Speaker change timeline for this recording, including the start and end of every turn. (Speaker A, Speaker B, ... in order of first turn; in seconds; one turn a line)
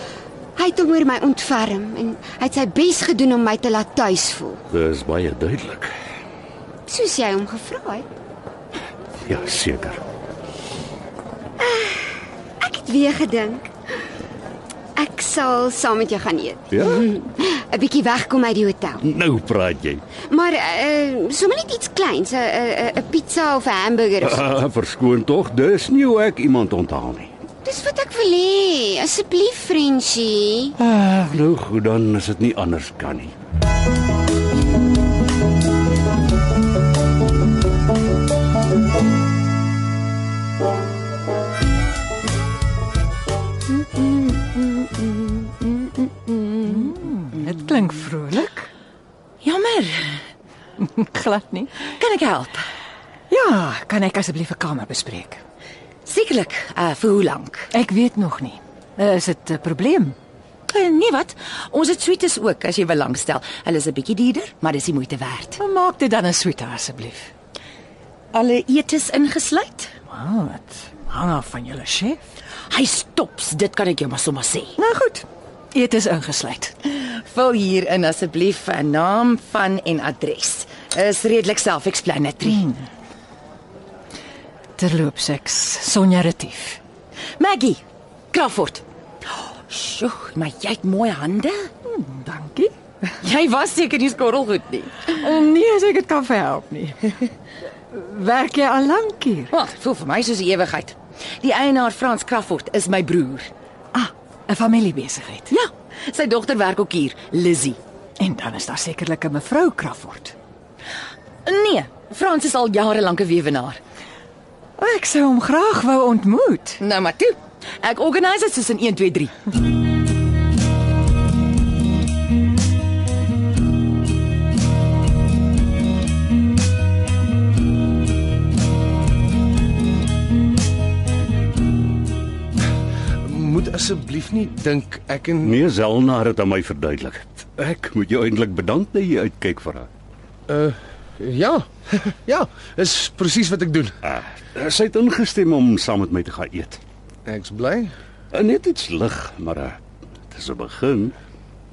Speaker A: 0.6-4.6
Speaker B: 4.7-5.9
Speaker A: 6.9-8.1
Speaker B: 9.2-10.0
Speaker A: 11.6-13.7
Speaker A: 15.0-19.0
Speaker B: 16.7-17.1
Speaker B: 19.0-20.0
Speaker A: 20.3-24.5
Speaker B: 24.2-27.3
Speaker A: 27.6-30.7
Speaker B: 30.8-33.3
Speaker C: 44.0-46.9
Speaker D: 46.5-48.7
Speaker C: 49.4-50.2
Speaker D: 50.8-51.9
Speaker C: 51.8-52.7
Speaker D: 53.3-55.4
Speaker C: 56.0-57.7
Speaker D: 57.7-60.1
Speaker C: 60.7-65.6
Speaker D: 65.6-67.3
Speaker C: 68.3-70.0
Speaker D: 70.1-72.2
Speaker C: 72.7-74.8
Speaker D: 74.8-76.8
Speaker C: 76.8-82.6
Speaker D: 82.4-82.9
Speaker D: 84.8-86.8
Speaker C: 87.4-87.8
Speaker C: 88.3-88.8
Speaker C: 89.7-91.7
Speaker D: 91.8-92.7
Speaker C: 93.2-95.2
Speaker D: 95.0-97.3
Speaker D: 97.9-99.5
Speaker C: 99.5-103.5
Speaker D: 103.9-105.5
Speaker C: 105.5-107.8
Speaker D: 108.2-110.3
Speaker C: 111.4-113.8
Speaker D: 114.8-116.8
Speaker C: 116.8-119.3
Speaker E: 133.2-135.6
Speaker B: 135.4-139.9
Speaker E: 140.5-144.0
Speaker B: 144.0-146.8
Speaker E: 147.2-147.9
Speaker B: 148.3-149.8
Speaker B: 150.3-151.1